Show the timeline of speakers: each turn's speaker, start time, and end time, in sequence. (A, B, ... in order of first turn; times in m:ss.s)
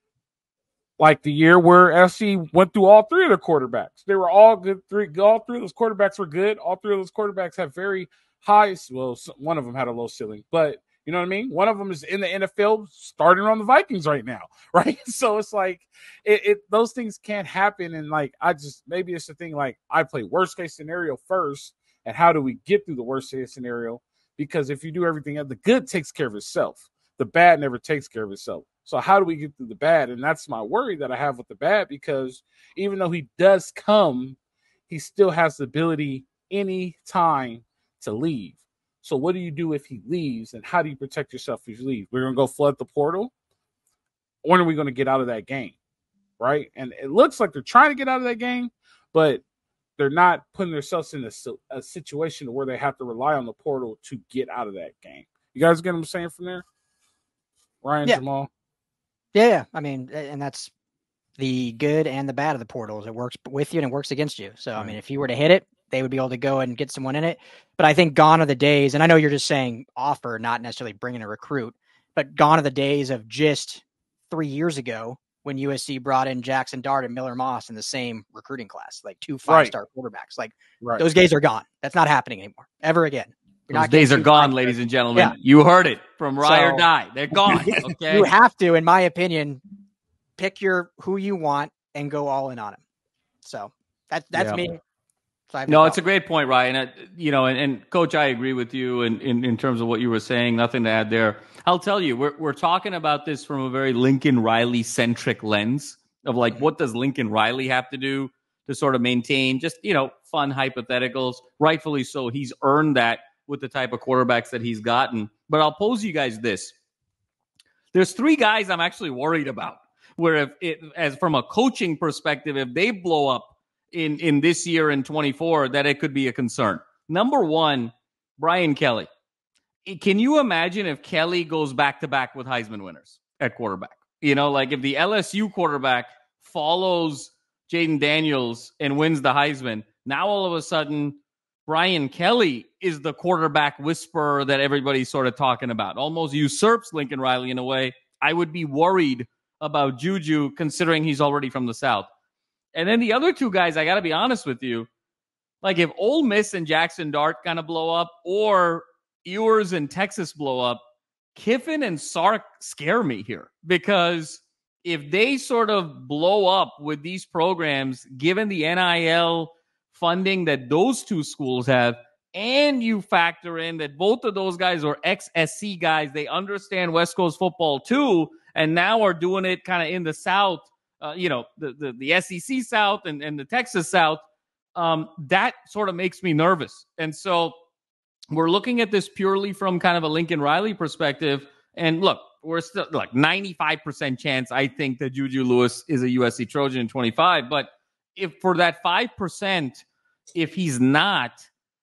0:01.0-0:34.4 A
0:34.9-0:43.3 A
0:44.4-0:45.7 A
0:46.4-0:49.4 A
0:50.0-0:56.6 A
0:57.8-0:58.5 A
0:59.3-1:00.7 B
1:01.4-1:25.3 B
1:19.5-1:19.7 A
1:23.7-1:28.3 C
1:26.4-1:26.8 B
1:27.7-1:29.6 B
1:30.4-1:32.8 B
1:33.4-1:34.8 B
1:34.3-1:34.6 C
1:35.5-1:36.0 B
1:35.7-1:56.7 C
1:57.9-2:09.1 C
2:09.8-2:32.1 C
2:32.7-2:34.9 C
2:35.6-2:40.8 C
2:41.3-3:04.2 C
3:04.7-3:07.5 C
3:08.3-3:21.5 C